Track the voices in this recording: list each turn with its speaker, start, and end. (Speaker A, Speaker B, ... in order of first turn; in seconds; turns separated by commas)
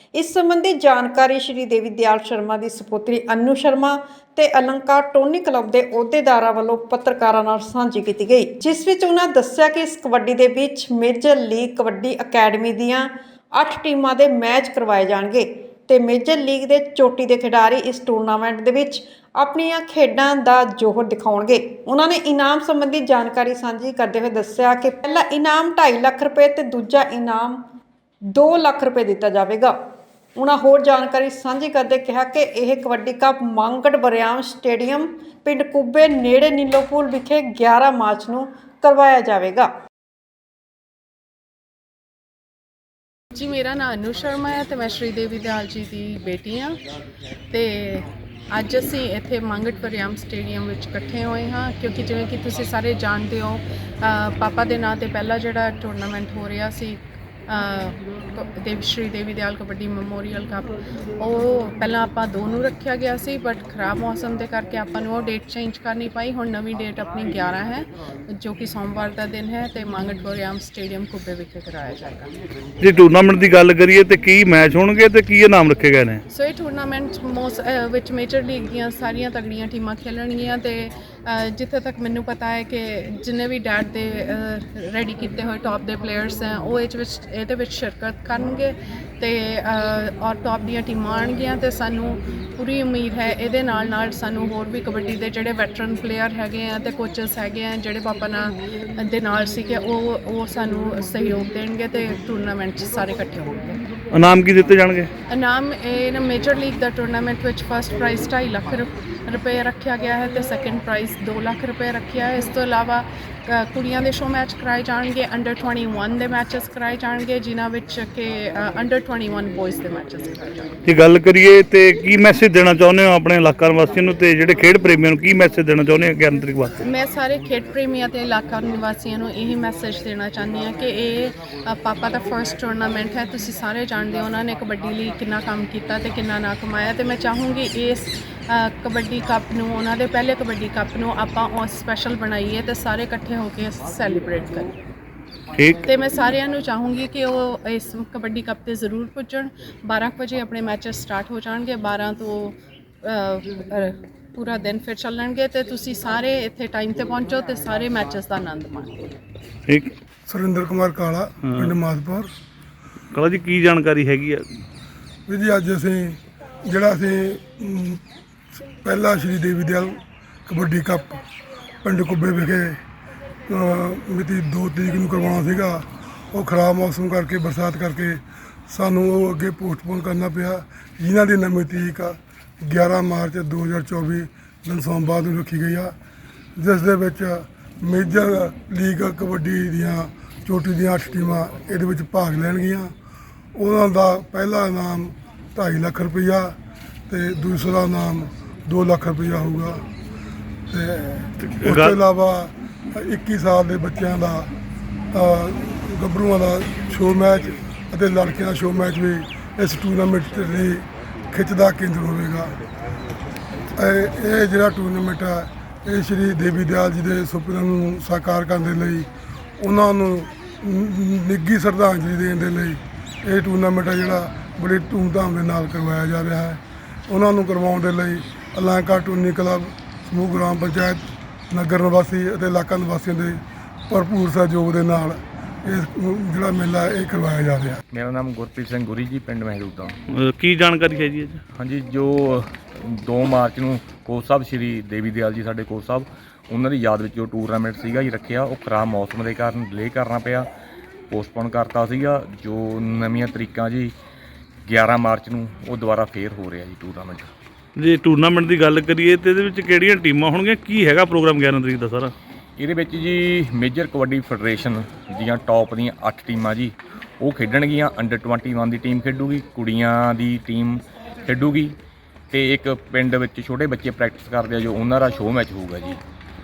Speaker A: 0.1-27.6, Speaker A: 28.3-29.8, Speaker A: 30.3-39.7, Speaker B: 43.3-46.8, Speaker B: 47.5-72.3, Speaker C: 72.8-76.2, Speaker B: 76.3-103.8, Speaker C: 104.1-105.1, Speaker B: 105.3-120.7, Speaker C: 120.8-126.8, Speaker B: 126.8-144.8, Speaker B: 145.8-159.0, Speaker C: 159.7-159.9, Speaker D: 160.3-162.3, Speaker C: 161.4-161.7, Speaker C: 163.1-164.5, Speaker D: 165.3-168.0, Speaker D: 168.5-171.2, Speaker D: 171.8-172.8, Speaker D: 173.5-185.9, Speaker D: 186.6-192.9, Speaker D: 193.5-196.6, Speaker D: 197.1-199.8, Speaker D: 200.7-204.5, Speaker C: 201.5-201.9, Speaker D: 205.1-212.6, Speaker D: 213.7-237.8, Speaker E: 237.9-239.9, Speaker C: 240.1-241.4, Speaker E: 241.5-250.5, Speaker E: 251.1-253.9, Speaker E: 254.6-257.3, Speaker C: 257.8-262.1, Speaker E: 262.6-271.8, Speaker E: 272.3-276.0